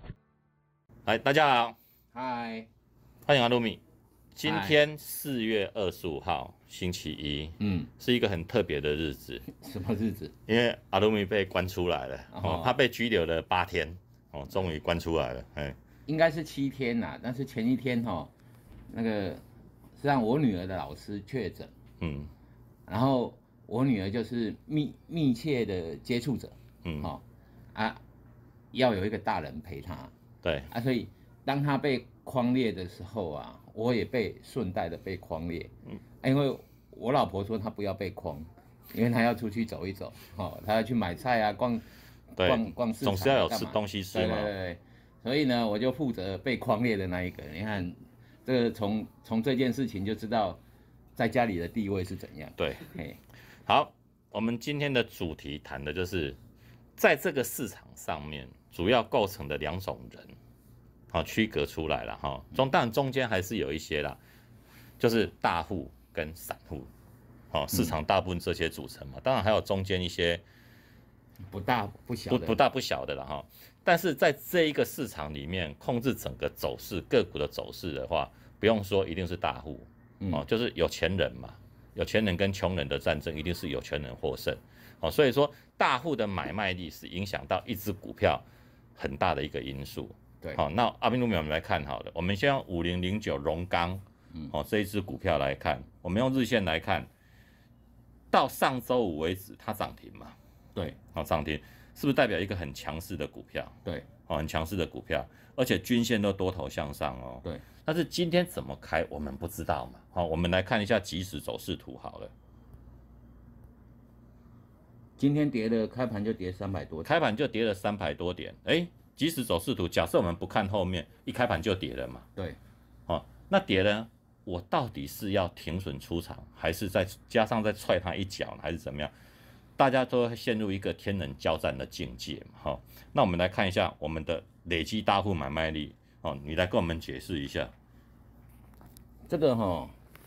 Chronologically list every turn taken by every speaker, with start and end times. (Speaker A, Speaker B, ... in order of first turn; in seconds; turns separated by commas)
Speaker A: 1.1-1.7, Speaker B: 2.1-2.7, Speaker A: 3.2-3.8, Speaker A: 4.3-9.4, Speaker B: 4.4-4.7, Speaker B: 7.6-7.9, Speaker B: 9.5-10.3, Speaker A: 10.5-15.8, Speaker B: 12.3-12.7, Speaker B: 16.1-18.3, Speaker B: 18.9-19.4, Speaker B: 20.0-21.7, Speaker A: 22.0-22.3, Speaker B: 22.9-27.2, Speaker A: 26.8-27.1, Speaker B: 27.7-28.0, Speaker B: 28.7-30.1, Speaker A: 30.4-30.7, Speaker B: 30.7-35.7, Speaker B: 36.2-41.8, Speaker B: 42.4-50.6, Speaker A: 42.4-44.5, Speaker B: 51.1-53.2, Speaker A: 52.6-52.8, Speaker A: 53.6-56.4, Speaker A: 57.0-60.3, Speaker A: 61.1-64.2, Speaker A: 65.0-66.9, Speaker A: 67.5-70.4, Speaker B: 71.5-72.6, Speaker A: 72.3-88.4, Speaker A: 89.0-97.1, Speaker A: 98.3-100.3, Speaker A: 101.1-103.8, Speaker A: 104.3-112.3, Speaker B: 115.2-117.2, Speaker A: 117.0-122.2, Speaker A: 123.1-129.1, Speaker A: 129.8-137.7, Speaker B: 139.3-139.9